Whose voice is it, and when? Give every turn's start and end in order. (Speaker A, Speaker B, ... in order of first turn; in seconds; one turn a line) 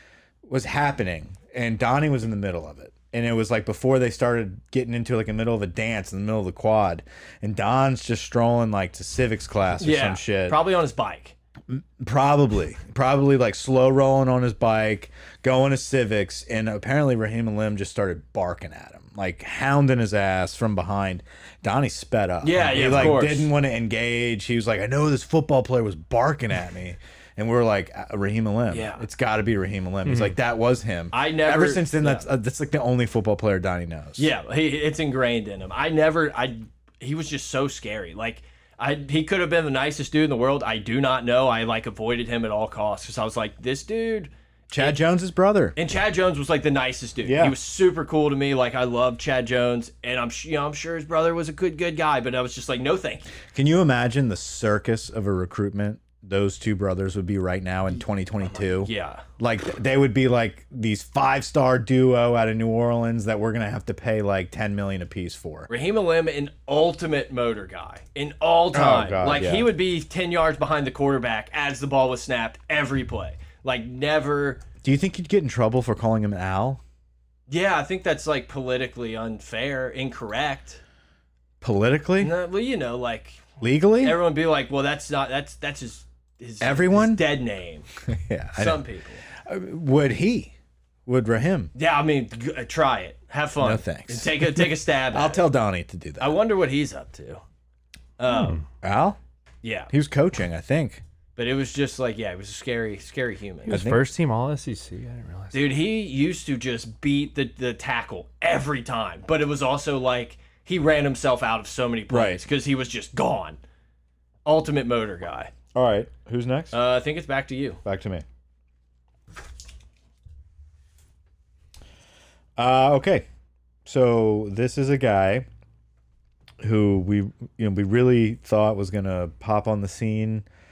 Speaker A: 0.4-10.6
Speaker B: 9.8-11.3
Speaker A: 11.7-34.3
Speaker B: 22.4-23.5
Speaker B: 28.7-29.0
Speaker C: 30.0-30.4
Speaker B: 31.1-32.2
Speaker B: 34.2-44.9
Speaker A: 44.7-45.7
Speaker B: 45.8-53.3
Speaker A: 47.2-47.5
Speaker A: 53.5-65.7
Speaker B: 58.6-59.2
Speaker B: 65.7-74.6
Speaker A: 68.7-69.7
Speaker A: 74.8-76.8
Speaker B: 77.5-80.8
Speaker A: 81.6-82.3
Speaker B: 82.2-83.4
Speaker A: 83.6-84.2
Speaker B: 84.0-87.9
Speaker A: 86.6-87.2
Speaker A: 88.0-90.5
Speaker B: 88.5-89.2
Speaker A: 91.0-91.7
Speaker B: 91.7-95.4
Speaker A: 93.6-96.4
Speaker B: 96.2-97.4
Speaker B: 98.2-98.6
Speaker C: 98.3-98.6
Speaker A: 98.7-99.2
Speaker B: 99.6-99.9
Speaker A: 99.9-101.0
Speaker B: 101.3-103.8
Speaker C: 103.7-105.7
Speaker A: 103.7-104.0
Speaker B: 105.5-113.6
Speaker A: 112.1-112.4
Speaker B: 114.4-115.5
Speaker A: 115.7-116.8
Speaker B: 116.7-117.8
Speaker A: 117.8-118.2
Speaker A: 122.6-123.2
Speaker A: 123.8-125.5
Speaker A: 126.6-130.4